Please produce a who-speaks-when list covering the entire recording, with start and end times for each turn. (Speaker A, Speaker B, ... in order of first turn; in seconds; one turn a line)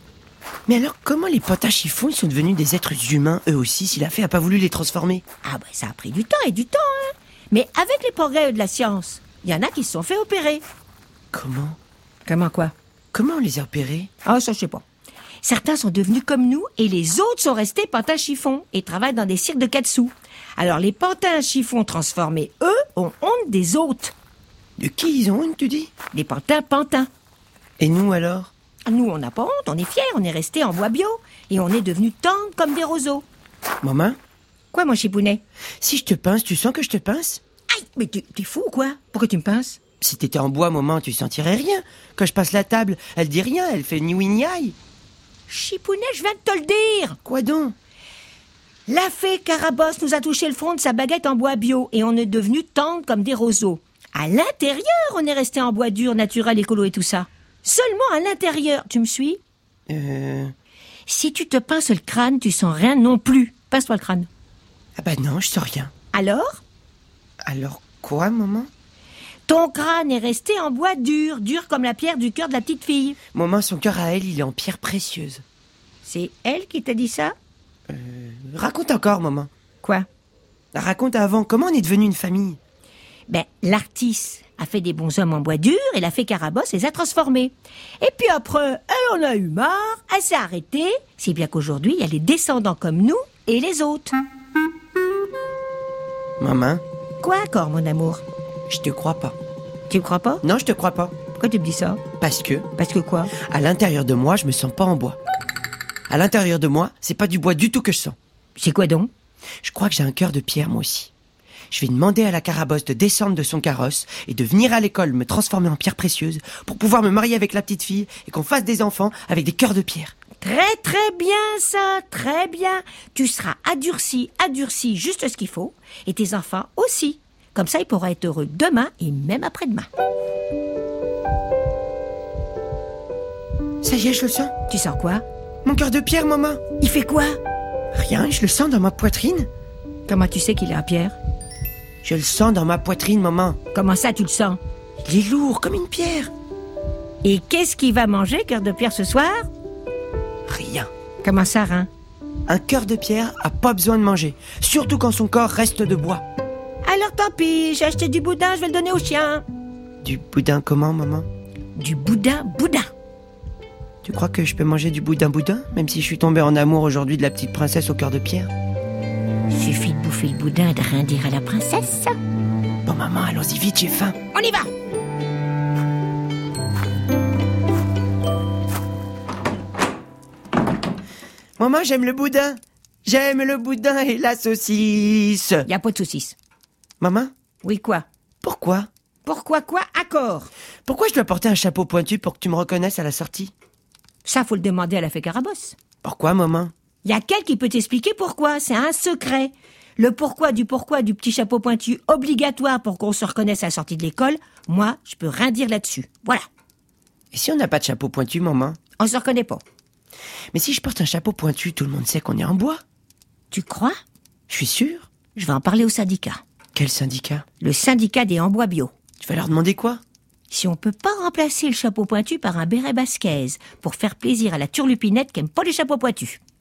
Speaker A: 0.7-5.2
Speaker B: 5.4-10.6
Speaker A: 11.3-11.8
Speaker B: 12.2-12.7
Speaker A: 13.1-14.1
Speaker B: 14.2-14.8
Speaker B: 15.4-24.1
Speaker A: 24.8-25.9
Speaker B: 26.1-27.1
Speaker A: 27.8-28.5
Speaker B: 28.9-33.2
Speaker A: 33.8-34.2
Speaker B: 34.7-35.4
Speaker A: 35.8-37.4
Speaker B: 37.7-39.8
Speaker A: 40.0-44.8
Speaker B: 45.5-47.2
Speaker A: 47.2-47.7
Speaker B: 48.9-59.4
Speaker A: 59.9-60.5
Speaker B: 61.1-64.3
Speaker A: 65.0-65.9
Speaker B: 66.1-66.6
Speaker A: 67.4-68.7
Speaker B: 69.5-73.2
Speaker A: 73.3-75.4
Speaker B: 76.0-77.3
Speaker A: 77.9-79.5
Speaker A: 80.7-82.6
Speaker B: 83.3-94.2
Speaker A: 96.4-96.8
Speaker B: 97.2-98.2
Speaker A: 98.7-99.4
Speaker B: 99.9-100.4
Speaker A: 100.4-101.1
Speaker B: 101.3-102.0
Speaker A: 102.2-102.7
Speaker B: 102.8-103.3
Speaker A: 103.3-105.2
Speaker A: 106.1-108.2
Speaker B: 108.6-109.1
Speaker A: 109.6-111.1
Speaker A: 111.7-120.1
Speaker B: 120.4-129.9
Speaker A: 133.8-134.5
Speaker B: 134.7-135.2
Speaker A: 135.6-136.6
Speaker B: 136.8-137.4
Speaker A: 137.9-139.5
Speaker B: 140.1-141.1
Speaker A: 142.0-143.6
Speaker B: 143.7-144.6
Speaker A: 145.0-146.3
Speaker B: 147.2-149.5
Speaker A: 150.5-150.9
Speaker B: 151.2-151.9
Speaker A: 152.5-156.2
Speaker B: 156.8-159.4
Speaker A: 160.0-161.3
Speaker B: 161.8-162.9
Speaker A: 164.0-168.5
Speaker B: 169.5-172.1
Speaker A: 172.8-174.2
Speaker B: 174.3-174.7
Speaker A: 181.6-185.7
Speaker B: 185.7-186.3
Speaker A: 187.0-187.3
Speaker B: 187.6-188.1
Speaker A: 188.4-188.9
Speaker B: 189.2-190.5
Speaker A: 190.8-193.5
Speaker B: 194.2-195.8
Speaker A: 196.0-196.7
Speaker B: 197.0-206.4
Speaker A: 207.3-208.8
Speaker B: 209.0-209.6
Speaker A: 210.5-212.8
Speaker B: 213.5-213.9
Speaker A: 214.5-215.1
Speaker B: 215.3-216.4
Speaker A: 216.7-217.4
Speaker B: 217.6-218.9
Speaker A: 219.2-220.0
Speaker B: 220.5-226.4